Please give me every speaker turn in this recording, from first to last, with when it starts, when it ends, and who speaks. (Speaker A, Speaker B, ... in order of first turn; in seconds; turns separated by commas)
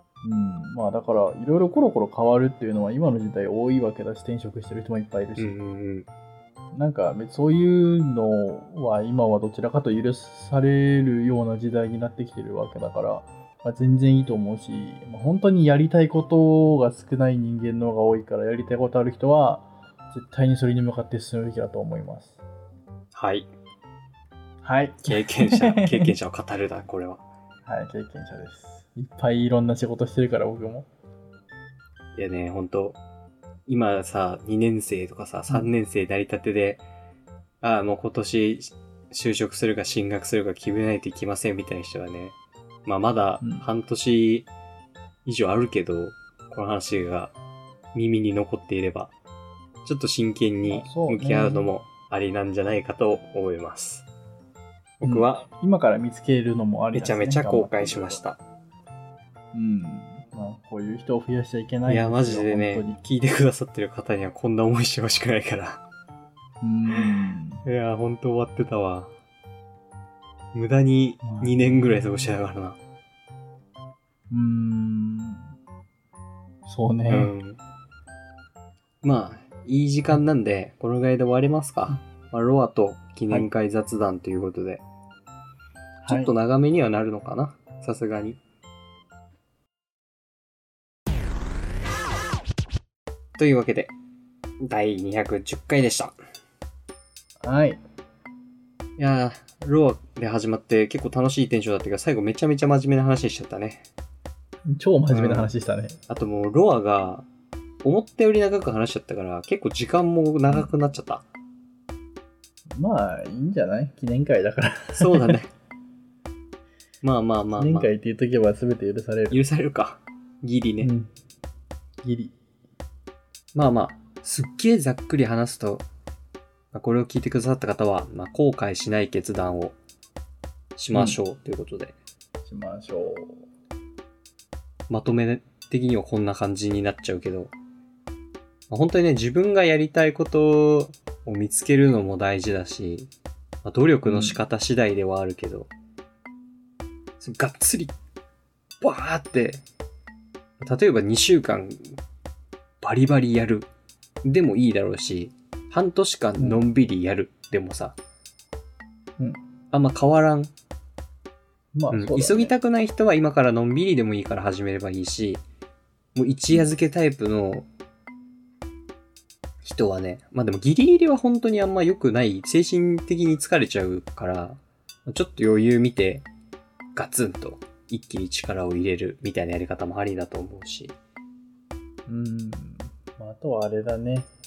Speaker A: 0.2-5.5, Speaker B: 5.4-6.1, Speaker A: 6.7-22.4, Speaker B: 23.1-23.5, Speaker A: 24.6-26.1, Speaker B: 25.0-27.2, Speaker A: 27.6-30.9, Speaker B: 32.1-33.0, Speaker B: 33.7-36.8, Speaker B: 37.6-44.5, Speaker A: 43.4-43.7, Speaker B: 45.2-47.3, Speaker B: 47.9-49.1, Speaker B: 49.8-54.0, Speaker A: 50.6-51.7, Speaker B: 55.0-55.5, Speaker A: 55.0-58.2, Speaker B: 56.9-58.4, Speaker A: 59.5-63.0, Speaker B: 61.9-65.8, Speaker A: 66.6-67.6, Speaker B: 67.0-69.1, Speaker B: 70.5-72.8, Speaker A: 71.2-72.3, Speaker A: 74.3-75.5, Speaker A: 76.7-77.3, Speaker B: 77.1-77.6, Speaker B: 79.0-84.8, Speaker A: 86.0-86.3, Speaker B: 86.1-88.4, Speaker B: 93.4-93.9, Speaker B: 94.6-96.2, Speaker A: 97.4-97.8, Speaker B: 99.0-103.8, Speaker A: 104.7-106.0, Speaker B: 105.1-105.5, Speaker B: 106.1-107.3, Speaker B: 107.8-111.2, Speaker A: 112.7-115.4, Speaker B: 115.0-115.5, Speaker B: 117.0-117.9, Speaker A: 117.6-119.4, Speaker B: 119.3-120.9, Speaker A: 120.8-121.1, Speaker A: 122.0-122.3, Speaker B: 123.5-125.8, Speaker B: 126.7-129.7, Speaker B: 130.8-131.9, Speaker A: 130.9-131.2, Speaker A: 132.4-133.4, Speaker B: 134.9-137.5, Speaker B: 138.7-143.1, Speaker B: 143.6-145.7, Speaker A: 144.0-144.4, Speaker B: 147.2-147.9, Speaker B: 148.8-149.6, Speaker B: 150.6-152.0, Speaker B: 152.8-153.7, Speaker B: 154.2-158.0, Speaker A: 156.4-156.6, Speaker B: 159.7-160.5, Speaker A: 161.7-162.5, Speaker B: 161.9-165.4, Speaker B: 166.1-167.7, Speaker B: 169.6-176.3, Speaker B: 176.9-180.9, Speaker A: 182.1-184.3